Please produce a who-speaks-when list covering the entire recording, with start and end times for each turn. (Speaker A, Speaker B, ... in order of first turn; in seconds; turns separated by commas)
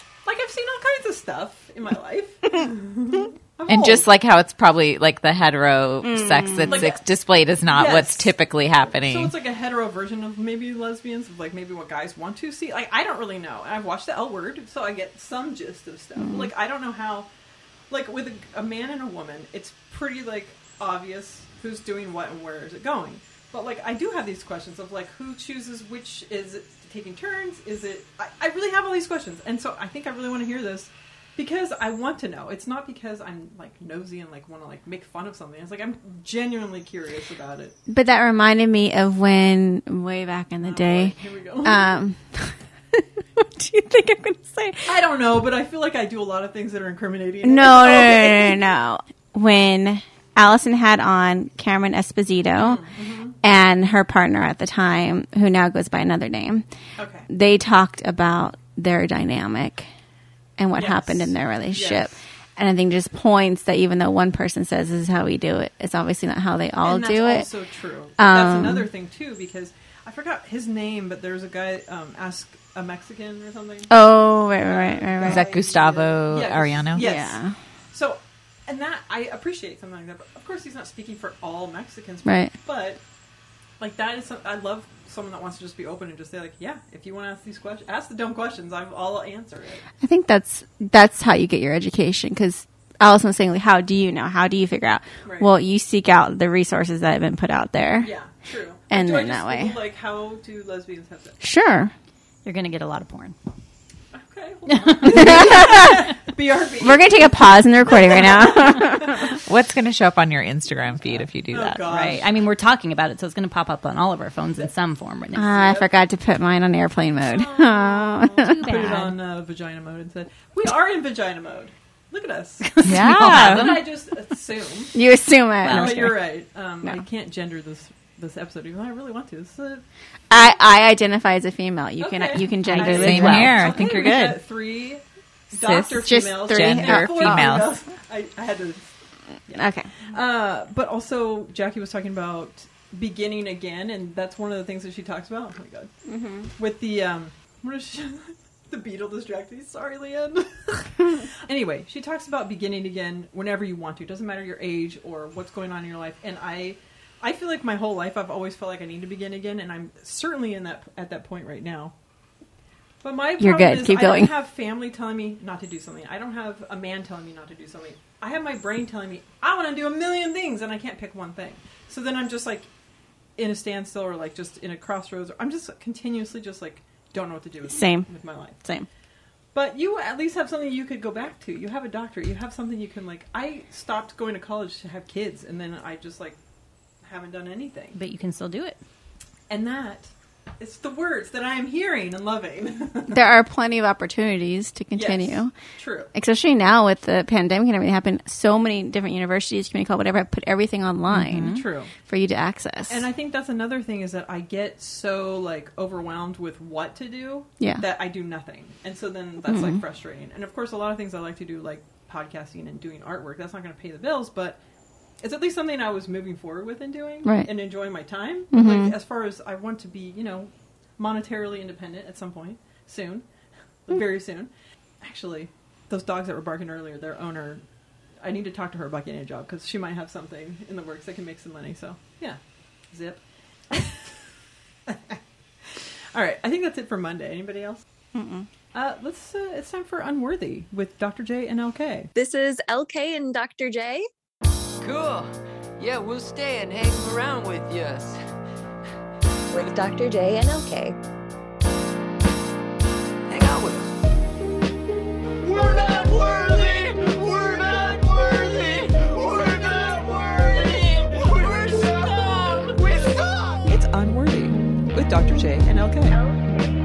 Speaker A: 0.2-4.1, Speaker B: 3.7-9.3, Speaker C: 6.0-6.9, Speaker A: 6.7-7.0, Speaker A: 7.7-17.3, Speaker C: 16.2-16.5, Speaker A: 17.9-37.8, Speaker C: 37.9-44.9, Speaker A: 40.6-42.0, Speaker A: 44.9-48.6, Speaker C: 47.4-52.8, Speaker A: 52.6-53.4, Speaker C: 53.4-56.7, Speaker A: 57.0-57.3, Speaker C: 57.3-59.9, Speaker C: 60.6-67.5, Speaker A: 60.8-62.1, Speaker A: 66.8-83.0, Speaker C: 68.2-68.9, Speaker C: 73.9-75.5, Speaker B: 75.2-77.1, Speaker C: 77.0-77.6, Speaker C: 82.2-82.5, Speaker A: 83.8-89.9, Speaker C: 90.0-98.1, Speaker A: 95.2-95.5, Speaker A: 98.0-101.4, Speaker C: 98.9-99.8, Speaker C: 101.4-101.9, Speaker D: 102.5-103.4, Speaker A: 104.1-109.4, Speaker D: 104.7-105.7, Speaker C: 105.2-106.0, Speaker C: 106.8-109.3, Speaker B: 109.5-111.8, Speaker A: 111.0-112.3, Speaker D: 111.9-115.5, Speaker C: 115.3-118.5, Speaker A: 115.5-115.9, Speaker A: 117.2-125.0, Speaker D: 118.6-119.2, Speaker D: 122.6-123.9, Speaker B: 122.8-123.8, Speaker C: 124.9-126.1, Speaker D: 125.6-126.2, Speaker A: 125.7-130.6, Speaker C: 130.3-133.6, Speaker A: 132.0-135.0, Speaker D: 132.6-133.6, Speaker B: 132.8-134.4, Speaker B: 135.5-137.7, Speaker A: 135.5-138.9, Speaker C: 136.0-137.6, Speaker C: 139.5-139.9, Speaker A: 140.1-145.9, Speaker C: 146.1-146.5, Speaker A: 146.6-161.9, Speaker A: 163.0-172.7, Speaker C: 163.4-164.3, Speaker A: 173.4-178.7, Speaker C: 177.7-178.9, Speaker A: 179.5-186.4, Speaker A: 187.0-188.0, Speaker D: 187.9-188.8, Speaker A: 189.5-193.2, Speaker C: 193.1-195.5, Speaker A: 194.9-196.1, Speaker C: 196.1-203.0, Speaker D: 201.1-201.6, Speaker A: 201.5-201.9, Speaker A: 202.9-214.6, Speaker C: 207.6-207.8, Speaker C: 209.5-209.8, Speaker A: 215.2-223.3, Speaker C: 218.5-218.9, Speaker A: 223.9-224.5, Speaker A: 225.0-227.6, Speaker A: 228.2-234.2, Speaker A: 234.9-237.8, Speaker C: 238.2-238.5, Speaker A: 238.7-242.1, Speaker E: 242.2-244.1, Speaker F: 244.8-248.2, Speaker E: 249.5-250.9, Speaker F: 253.3-253.9, Speaker F: 255.4-263.6, Speaker A: 263.7-266.2